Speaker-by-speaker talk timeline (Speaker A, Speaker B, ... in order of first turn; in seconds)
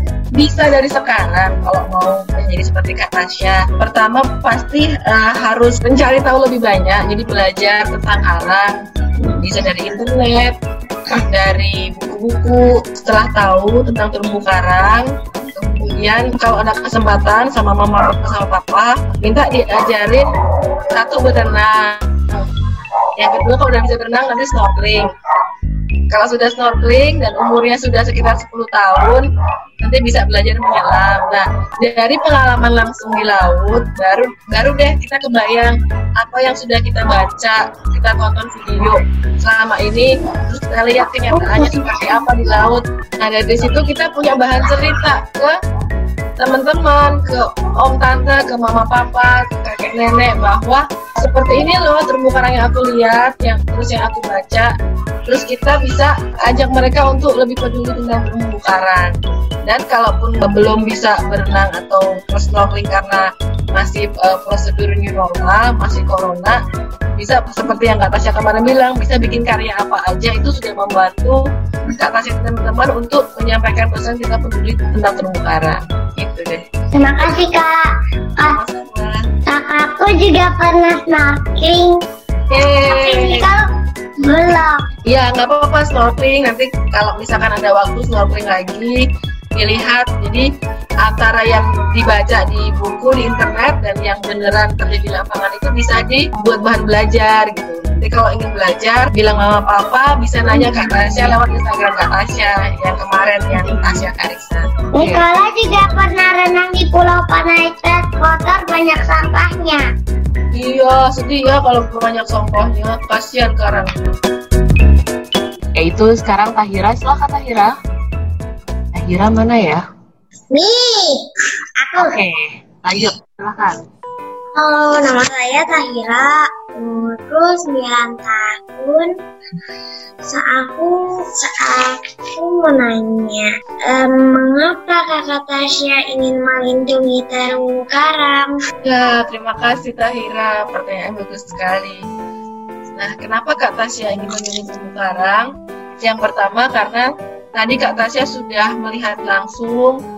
Speaker A: 0.3-8.7, 9.4-10.5, 11.3-20.3, 20.9-22.4, 23.2-25.1, 26.1-29.2, 29.8-45.5, 46.4-54.7, 55.3-59.1, 59.6-66.6, 67.2-71.4, 71.9-76.6, 78.4-79.2, 82.5-83.4, 85.1-89.0, 89.6-90.5, 91.0-104.7, 110.5-113.9, 138.8-142.0, 142.9-145.5, 146.0-150.0
Speaker B: 76.9-77.8, 79.5-82.0, 82.8-83.6, 84.2-84.8, 104.9-109.8, 120.5-121.2, 121.8-122.2, 124.5-129.1, 130.3-138.5
Speaker C: 105.0-105.2, 115.8-117.7, 118.9-119.8, 121.9-123.8